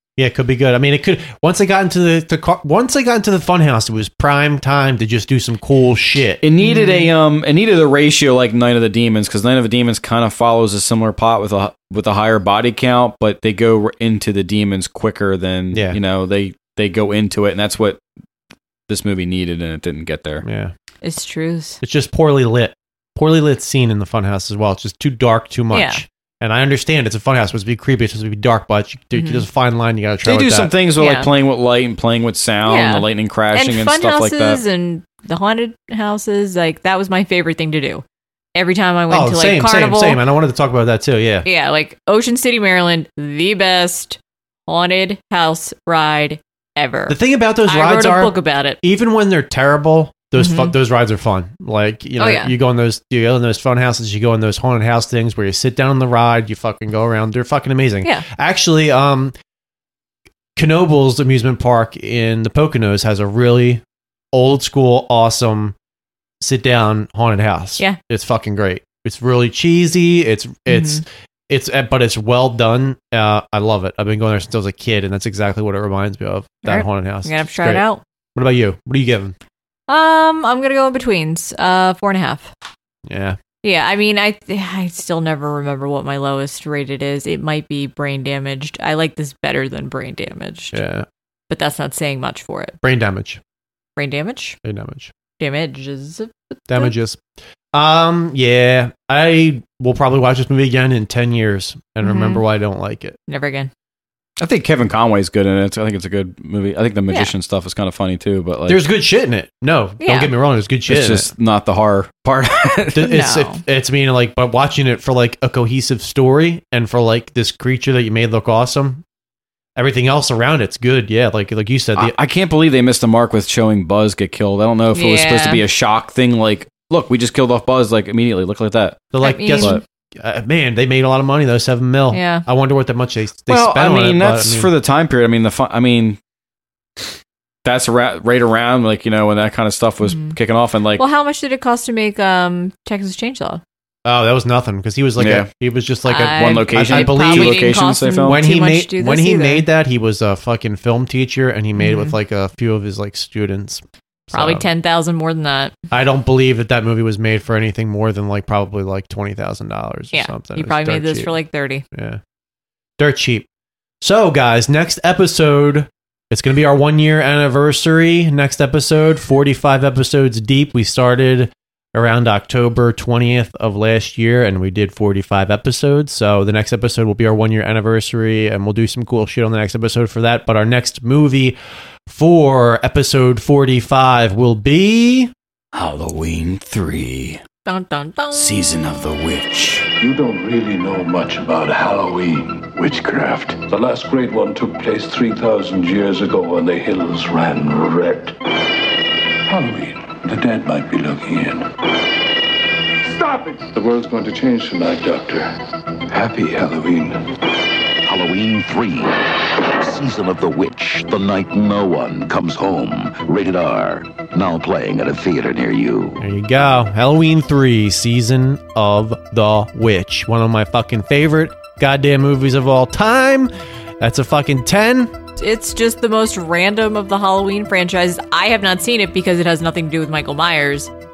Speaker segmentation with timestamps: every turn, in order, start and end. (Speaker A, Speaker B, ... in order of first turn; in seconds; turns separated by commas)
Speaker A: 0.2-6.4, Speaker B: 6.4-18.0, Speaker C: 6.6-7.1, Speaker A: 15.7-16.0, Speaker B: 18.9-20.4, Speaker A: 20.4-20.7, Speaker C: 21.0-21.8, Speaker A: 21.8-30.7, Speaker C: 25.7-26.0, Speaker C: 29.1-29.4, Speaker B: 30.2-34.6, Speaker C: 31.0-31.3, Speaker C: 32.7-38.0, Speaker C: 38.5-40.2, Speaker A: 39.1-41.5, Speaker C: 41.5-48.8, Speaker A: 47.1-59.4, Speaker C: 50.4-50.7, Speaker C: 52.2-52.5, Speaker A: 60.6-65.8, Speaker A: 66.4-79.3, Speaker C: 70.7-71.0, Speaker C: 76.6-78.0, Speaker C: 79.9-82.5, Speaker A: 83.1-83.4, Speaker C: 83.6-90.8, Speaker A: 90.7-91.1, Speaker C: 91.5-92.8, Speaker A: 92.8-93.4, Speaker C: 94.0-94.6, Speaker A: 94.6-95.1, Speaker C: 95.4-96.9, Speaker A: 96.7-97.2, Speaker A: 97.7-103.2, Speaker C: 102.0-102.4, Speaker C: 103.3-103.7, Speaker B: 104.4-108.8, Speaker A: 108.7-111.3, Speaker C: 110.0-110.3, Speaker B: 110.9-113.1, Speaker A: 112.9-119.0, Speaker C: 113.0-113.6, Speaker A: 119.8-122.1, Speaker B: 122.0-129.8, Speaker C: 124.9-125.6, Speaker A: 129.1-134.7, Speaker C: 129.2-129.8, Speaker C: 132.1-132.4, Speaker B: 133.5-136.2, Speaker B: 137.7-141.0, Speaker C: 140.0-140.4, Speaker C: 141.0-143.6, Speaker A: 144.1-154.7, Speaker B: 145.2-145.5, Speaker C: 146.1-149.7, Speaker B: 146.3-148.4, Speaker C: 151.8-152.2, Speaker C: 154.3-155.7, Speaker A: 155.9-161.4, Speaker C: 160.1-161.8, Speaker A: 161.9-162.2, Speaker A: 163.0-163.5, Speaker A: 164.0-181.6, Speaker A: 182.1-185.3, Speaker D: 185.7-187.4, Speaker C: 187.7-188.6, Speaker D: 188.3-189.9, Speaker E: 190.0-198.4, Speaker E: 199.5-201.7, Speaker E: 203.0-205.5, Speaker E: 206.1-207.2, Speaker F: 208.0-209.2, Speaker F: 209.7-216.2, Speaker A: 216.2-225.1, Speaker C: 225.4-230.9